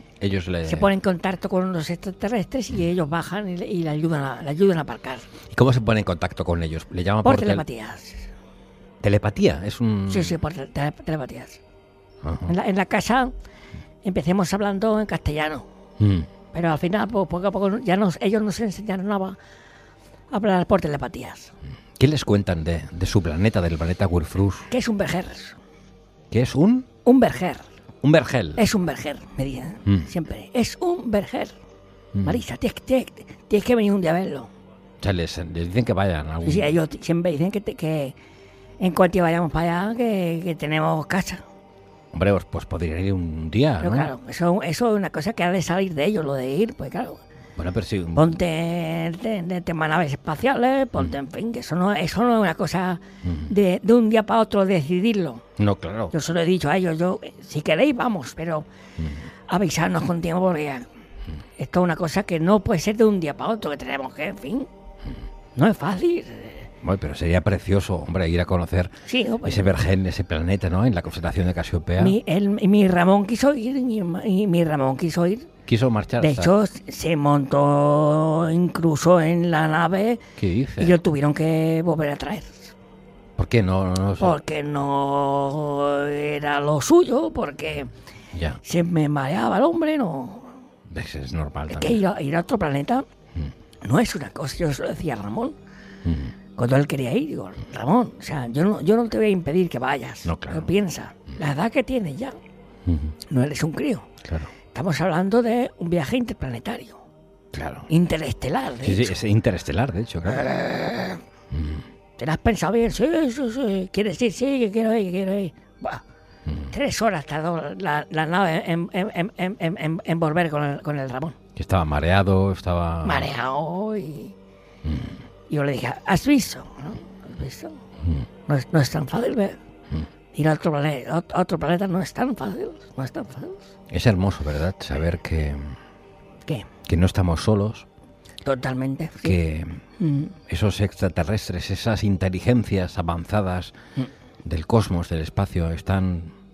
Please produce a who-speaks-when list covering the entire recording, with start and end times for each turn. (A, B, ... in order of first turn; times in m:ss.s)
0:00.2-0:00.9 A
0:00.6-0:05.3 B
0:05.5-0:07.6 A
0:07.2-0:08.3 B
0:09.0-0:10.4 A
0:10.1-0:11.6 B
0:12.2-0:12.5 A
0:12.5-0:13.3 B
0:14.0-0:15.6 B
0:16.0-0:16.3 A
0:16.5-0:19.4 B
0:20.3-0:21.5 B
0:22.0-0:24.7 A
0:24.7-0:25.6 B
0:26.3-0:26.9 A
0:27.0-0:27.6 B
0:28.0-0:28.6 A
0:28.6-0:31.5 B
0:32.1-0:32.4 A
0:32.2-0:34.5 B
0:35.0-0:36.8 A
0:36.4-0:38.1 B
0:38.8-0:41.4 B
0:42.1-0:44.1 A
0:43.8-0:47.2 B
0:47.6-0:48.4 A
0:48.1-0:55.4 B
0:53.2-0:53.5 A
0:55.6-0:56.1 A
0:56.1-0:58.6 B
0:59.5-1:00.9 B
1:01.6-1:04.7 B
1:05.5-1:06.7 B
1:06.8-1:12.2 A
1:09.0-1:09.7 B
1:12.0-1:15.5 B
1:15.7-1:16.5 A
1:16.2-1:20.2 B
1:20.4-1:21.0 A
1:20.8-1:22.7 B
1:23.4-1:24.4 A
1:24.2-1:27.9 B
1:28.3-1:28.6 A
1:28.6-1:30.6 B
1:30.9-1:32.0 A
1:31.7-1:33.0 B
1:33.8-1:35.6 B
1:36.0-1:36.3 A
1:36.6-1:42.4 B
1:40.2-1:40.7 A
1:42.8-1:43.1 A
1:43.3-1:44.1 B
1:44.2-1:44.5 A
1:44.7-1:47.0 B
1:47.5-1:47.9 A
1:47.9-1:49.2 B
1:48.8-1:50.5 A
1:50.3-1:51.2 B
1:51.5-1:51.8 A
1:52.2-1:56.0 B
1:56.5-1:56.7 A
1:56.7-2:01.4 B
2:01.6-2:03.3 A
2:03.0-2:04.3 B
2:04.8-2:05.2 A
2:05.5-2:07.8 B
2:08.5-2:09.6 B
2:10.3-2:13.6 B
2:13.9-2:15.7 A
2:16.8-2:17.9 A
2:18.4-2:19.4 B
2:19.2-2:19.8 A
2:20.0-2:20.3 B
2:20.5-2:23.7 A
2:24.4-2:26.3 A